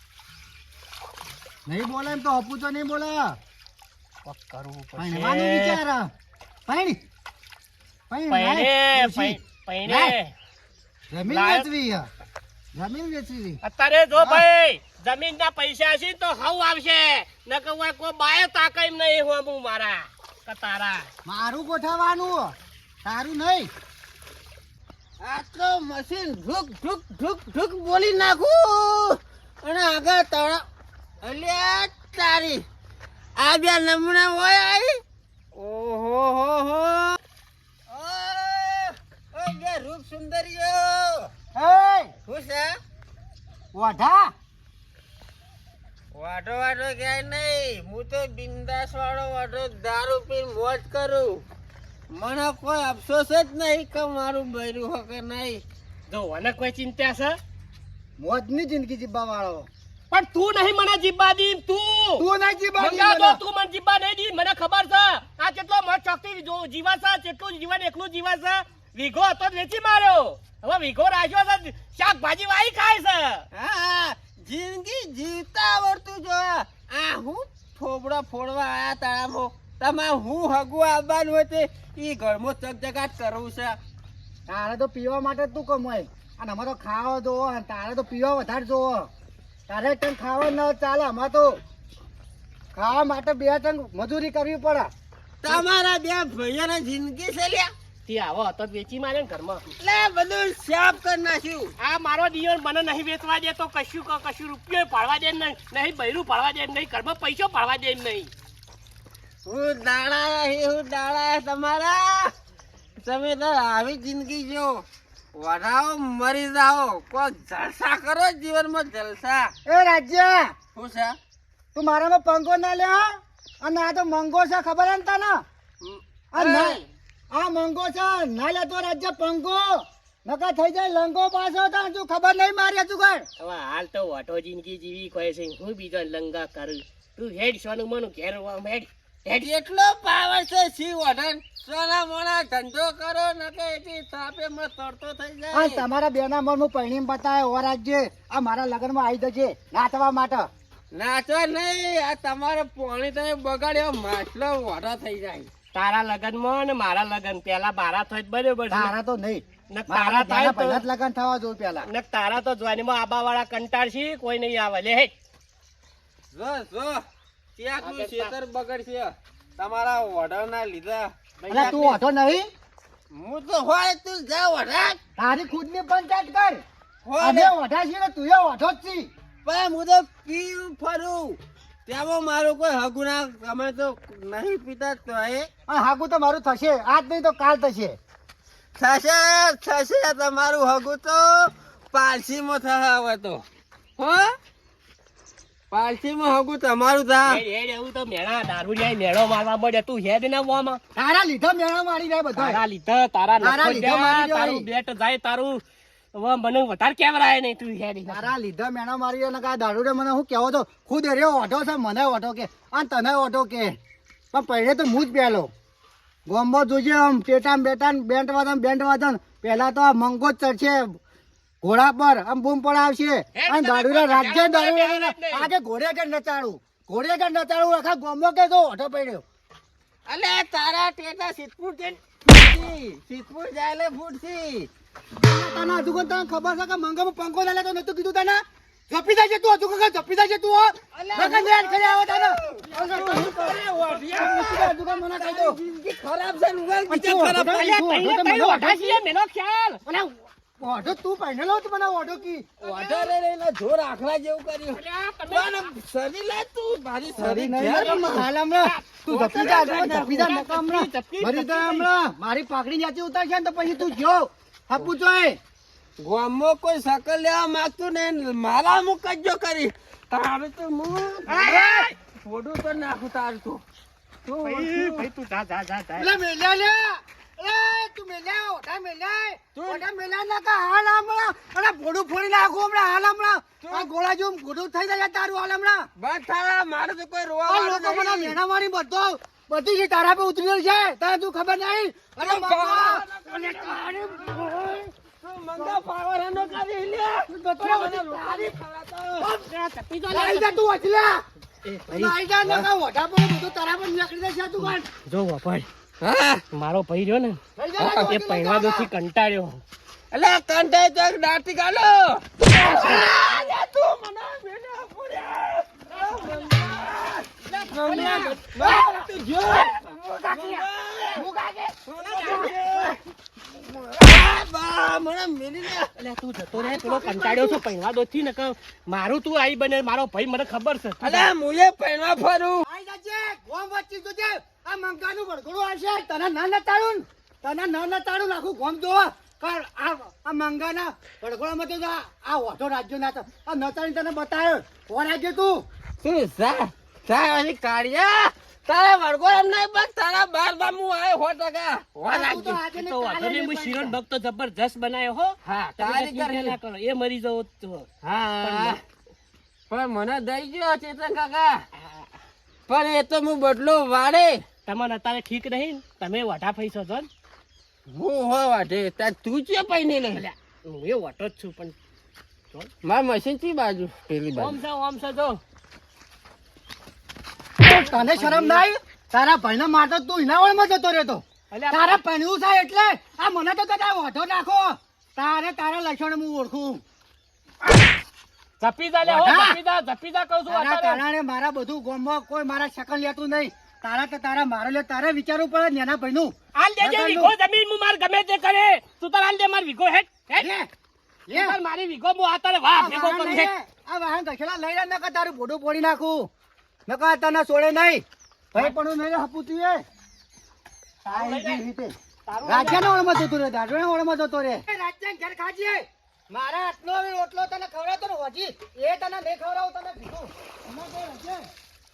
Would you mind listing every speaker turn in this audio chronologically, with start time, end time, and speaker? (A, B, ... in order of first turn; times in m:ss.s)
0:01.7-0:03.4 A
0:04.2-0:05.8 B
0:05.0-0:06.1 A
0:06.7-0:07.0 A
0:08.1-0:10.2 A
0:08.3-0:10.3 B
0:11.1-0:12.1 A
0:11.3-0:11.7 B
0:12.8-0:13.6 A
0:13.6-0:21.1 B
0:14.2-0:14.4 A
0:21.2-0:22.5 A
0:23.0-0:23.7 A
0:25.2-0:30.6 C
0:31.2-0:32.6 C
0:33.4-0:35.0 C
0:35.5-0:37.2 C
0:37.9-0:41.3 C
0:41.5-0:42.1 A
0:42.3-0:42.8 C
0:43.7-0:44.3 A
0:46.1-0:51.4 C
0:52.1-0:55.6 C
0:56.1-0:57.4 B
0:58.2-0:59.7 A
1:00.1-1:02.3 B
1:02.2-1:03.4 A
1:02.8-1:13.5 B
1:13.5-1:23.8 C
1:24.5-1:29.1 A
1:29.7-1:31.6 A
1:32.7-1:34.9 A
1:35.4-1:37.7 C
1:38.1-1:39.7 B
1:39.8-1:41.7 C
1:41.8-1:48.3 B
1:49.4-1:52.3 C
1:53.0-1:59.6 C
1:59.7-2:00.6 A
2:00.8-2:01.2 C
2:01.8-2:05.4 A
2:05.8-2:06.8 C
2:06.3-2:13.3 A
2:13.4-2:18.9 B
2:19.3-2:25.8 C
2:25.5-2:30.5 A
2:30.9-2:35.5 C
2:35.7-2:38.9 B
2:38.7-2:41.9 A
2:39.7-2:40.8 B
2:41.8-2:45.1 B
2:46.3-2:47.0 C
2:47.6-2:51.7 C
2:47.8-2:48.4 B
2:51.4-2:52.0 B
2:51.5-2:52.5 A
2:53.1-2:55.0 C
2:55.2-2:56.6 A
2:57.0-2:57.5 C
2:57.2-2:59.1 A
2:59.4-3:05.5 C
3:05.7-3:08.0 A
3:08.8-3:13.4 C
3:14.0-3:14.4 C
3:15.7-3:17.4 C
3:17.2-3:20.8 B
3:21.0-3:22.6 A
3:22.4-3:25.6 B
3:23.4-3:24.7 A
3:26.1-3:28.3 B
3:28.1-3:33.8 A
3:34.3-3:35.5 A
3:36.3-3:41.0 A
3:41.6-3:49.2 A
3:43.4-3:45.5 B
3:50.1-3:54.7 C
3:55.2-4:05.6 A
4:01.0-4:07.8 C
4:06.9-4:09.0 A
4:07.5-4:09.8 B
4:09.9-4:13.1 A
4:12.6-4:18.3 C
4:14.7-4:15.7 B
4:17.2-4:25.4 A
4:17.7-4:21.9 B
4:19.2-4:20.2 C
4:26.0-4:33.6 C
4:31.3-4:31.9 A
4:34.2-4:35.1 C
4:34.4-4:36.1 B
4:36.0-4:45.9 A
4:39.6-4:39.8 C
4:43.6-4:43.9 C
4:46.0-4:48.4 C
4:47.5-4:54.9 A
4:52.2-4:59.4 C
4:57.3-4:58.6 A
4:59.2-5:00.5 B
5:00.1-5:01.3 A
5:01.6-5:02.1 B
5:01.9-5:04.9 A
5:05.0-5:05.7 B
5:06.0-5:06.4 C
5:06.5-5:07.4 B
5:07.6-5:08.9 A
5:07.8-5:08.1 C
5:08.1-5:09.6 B
5:10.1-5:21.3 C
5:17.5-5:18.7 B
5:17.8-5:19.0 A
5:20.3-5:22.9 A
5:21.9-5:23.0 C
5:22.0-5:22.5 B
5:23.6-5:25.9 C
5:26.0-5:31.3 B
5:26.5-5:27.6 A
5:31.0-5:32.6 C
5:32.6-5:45.7 A
5:46.0-5:52.6 C
5:52.1-5:54.0 A
5:52.7-5:57.9 B
5:55.5-5:56.6 C
5:58.0-5:58.8 C
5:58.4-5:58.8 B
5:59.7-6:01.6 C
6:02.7-6:04.4 C
6:04.7-6:07.1 B
6:07.9-6:10.3 C
6:10.2-6:11.8 B
6:12.8-6:14.6 C
6:14.4-6:15.4 B
6:17.6-6:26.8 A
6:17.8-6:18.6 B
6:21.5-6:22.0 B
6:28.6-6:31.0 B
6:29.0-6:29.6 A
6:30.5-6:37.3 A
6:36.6-6:40.5 B
6:40.4-6:40.7 A
6:41.3-6:41.6 A
6:41.3-6:43.5 B
6:42.7-6:46.3 A
6:46.9-6:49.8 A
6:51.0-6:51.6 B
6:51.1-7:01.5 A
6:52.3-6:52.9 B